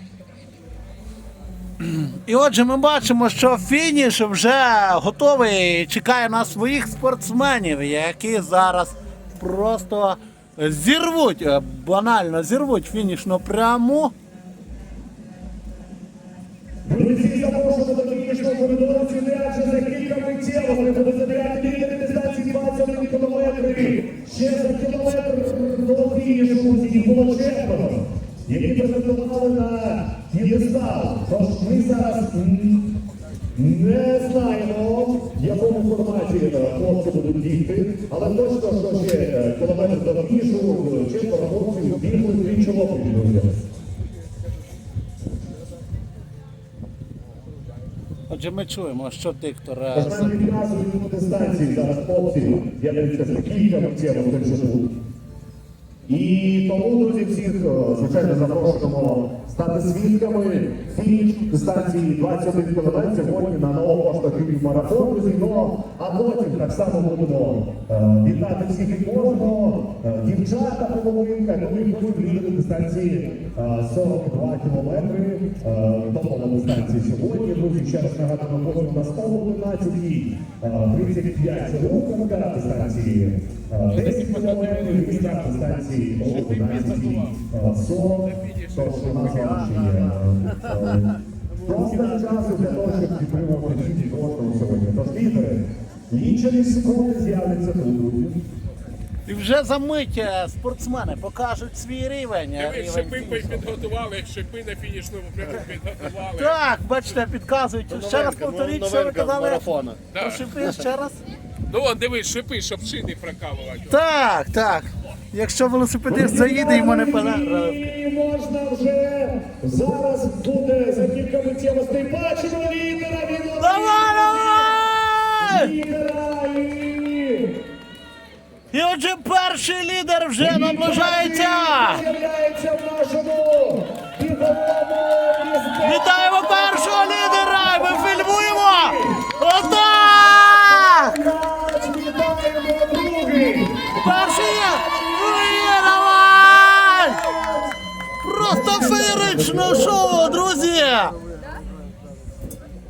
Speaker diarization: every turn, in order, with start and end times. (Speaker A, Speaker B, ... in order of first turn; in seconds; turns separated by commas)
Speaker A: 1.8-14.1, Speaker B: 16.8-33.0, Speaker B: 33.5-43.6, Speaker A: 48.3-50.3, Speaker B: 49.9-55.0, Speaker B: 56.1-98.4, Speaker C: 88.4-88.8, Speaker A: 99.2-103.7, Speaker C: 102.6-106.5, Speaker A: 106.3-111.2, Speaker B: 107.9-110.0, Speaker C: 110.1-110.4, Speaker C: 111.7-114.0, Speaker A: 113.9-117.9, Speaker B: 116.1-124.7, Speaker A: 123.6-125.7, Speaker B: 125.4-127.6, Speaker A: 128.7-132.0, Speaker B: 130.4-146.0, Speaker A: 135.8-141.1, Speaker A: 143.9-147.2, Speaker B: 146.7-147.7, Speaker A: 148.2-151.1, Speaker B: 148.4-150.5